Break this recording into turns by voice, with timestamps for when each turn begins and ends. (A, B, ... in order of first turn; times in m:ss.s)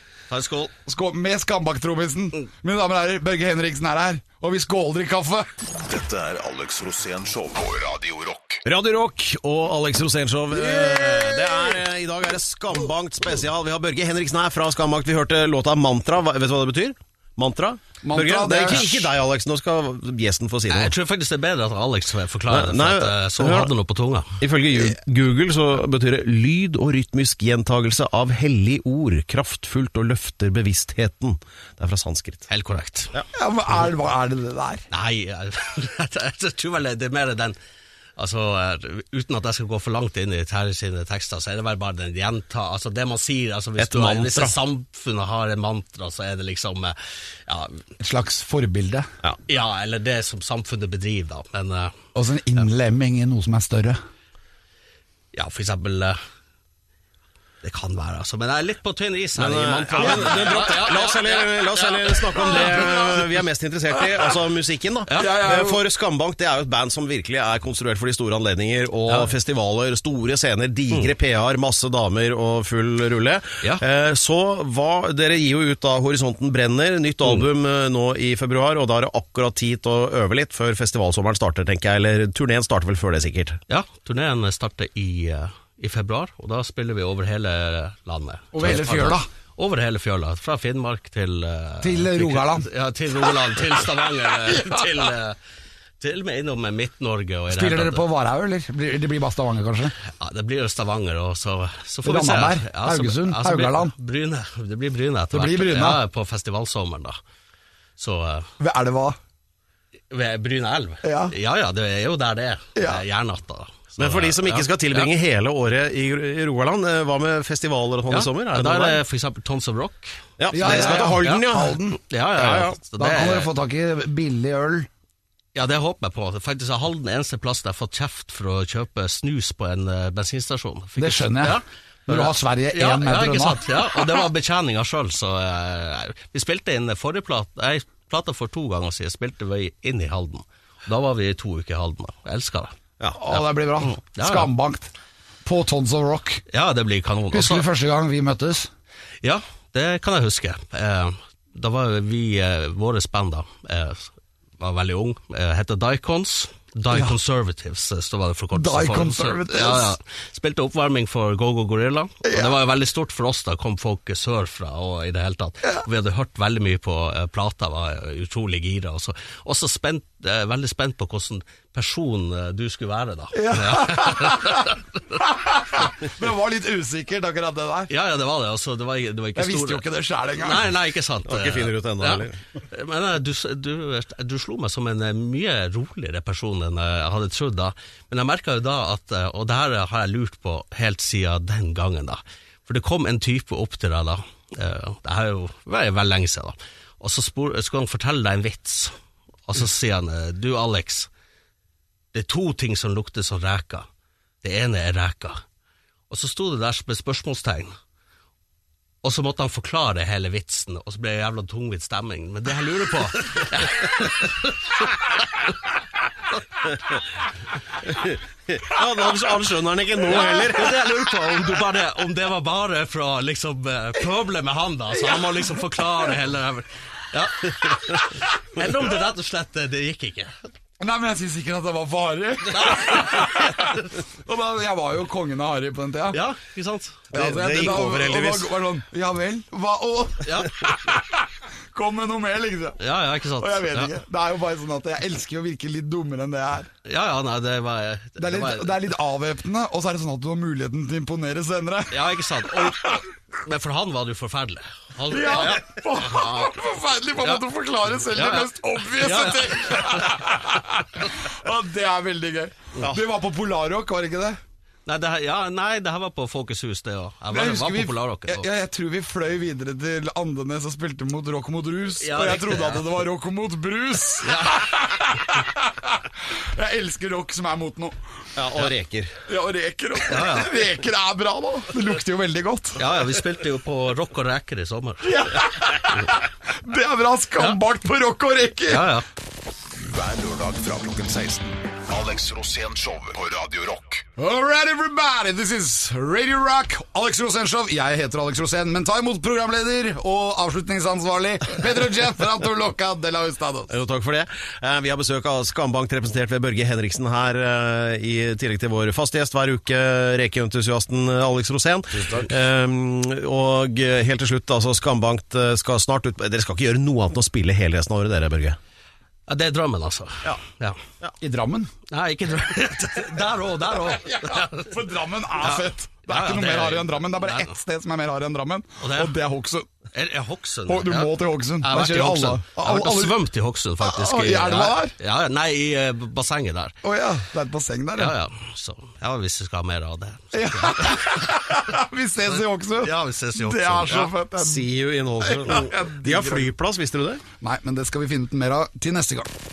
0:00.3-0:00.7 A
0:00.8-0:05.5 B
0:05.8-0:08.6 C
0:08.6-0:20.9 D
0:10.6-0:11.7 B
0:18.0-0:19.0 B
0:20.7-0:24.4 A
0:22.5-0:23.7 D
0:24.4-0:32.5 D
0:32.5-0:33.1 A
0:33.3-0:34.8 B
0:34.9-0:37.6 A
0:38.2-0:47.8 A
0:43.8-0:44.6 D
0:48.0-0:49.1 B
0:49.5-0:51.9 A
0:52.1-0:54.0 B
0:55.3-0:56.2 A
0:57.6-1:03.0 A
0:59.4-1:23.6 D
1:00.0-1:00.7 B
1:02.3-1:03.2 B
1:04.0-1:04.3 B
1:05.1-1:05.4 A
1:05.1-1:05.8 B
1:23.7-1:35.4 A
1:28.5-1:29.3 B
1:31.8-1:32.7 B
1:34.5-1:34.8 B
1:36.0-1:38.1 A
1:37.5-1:39.9 B
1:40.0-1:47.2 A
1:42.0-1:43.9 B
1:45.3-1:46.0 B
1:48.0-1:48.5 A
1:48.6-1:49.2 B
1:50.1-1:55.1 A
1:51.0-1:51.3 B
1:52.7-1:53.0 B
1:54.0-1:59.0 D
1:58.1-2:03.5 A
2:00.4-2:01.8 D
2:00.5-2:02.0 B
2:02.4-2:02.8 D
2:03.0-2:04.9 B
2:05.5-2:22.7 A
2:11.0-2:14.2 B
2:23.1-2:24.9 B
2:23.3-2:24.5 A
2:25.4-2:26.4 B
2:26.5-2:27.7 A
2:27.3-2:28.7 B
2:29.2-2:55.2 A
2:38.5-2:39.9 B
2:42.2-2:42.6 B
2:53.3-2:57.9 B
2:57.9-2:59.8 A
2:59.4-3:00.7 B
3:00.4-3:18.9 A
3:01.2-3:02.4 D
3:19.4-3:21.1 A
3:22.1-3:23.9 A
3:24.4-3:25.4 A
3:26.1-3:27.7 A
3:29.0-3:35.8 A
3:37.8-3:40.9 D
3:40.1-3:50.3 A
3:44.9-3:45.8 B
3:50.8-3:56.2 B
3:52.5-3:54.0 A
3:56.1-3:57.7 A
3:57.1-4:06.7 B
3:57.1-3:58.5 D
4:00.2-4:00.6 A
4:02.8-4:03.9 A
4:06.8-4:08.8 A
4:08.2-4:13.0 B
4:11.9-4:16.6 A
4:15.0-4:24.4 B
4:17.2-4:17.4 A
4:18.0-4:20.2 A
4:24.8-4:28.5 A
4:27.3-4:38.0 B
4:32.0-4:32.8 A
4:34.2-4:34.6 A
4:38.4-4:39.1 D
4:39.3-4:42.8 B
4:40.1-4:40.6 A
4:42.8-4:45.4 A
4:45.0-4:49.0 B
4:48.7-4:49.0 A
4:49.8-4:54.1 C
4:54.2-5:03.7 B
5:03.7-5:18.6 D
5:19.3-5:20.8 A
5:21.2-5:21.7 B
5:21.9-5:24.7 A
5:23.8-5:29.7 B
5:25.4-5:27.5 A
5:28.8-5:29.1 A
5:29.9-5:36.7 A
5:30.6-5:33.2 B
5:33.8-5:34.9 B
5:36.8-5:38.2 B
5:38.0-5:41.6 A
5:40.3-5:44.7 B
5:42.7-5:44.1 A
5:44.4-5:47.2 D
5:45.2-5:46.5 B
5:47.4-5:49.3 B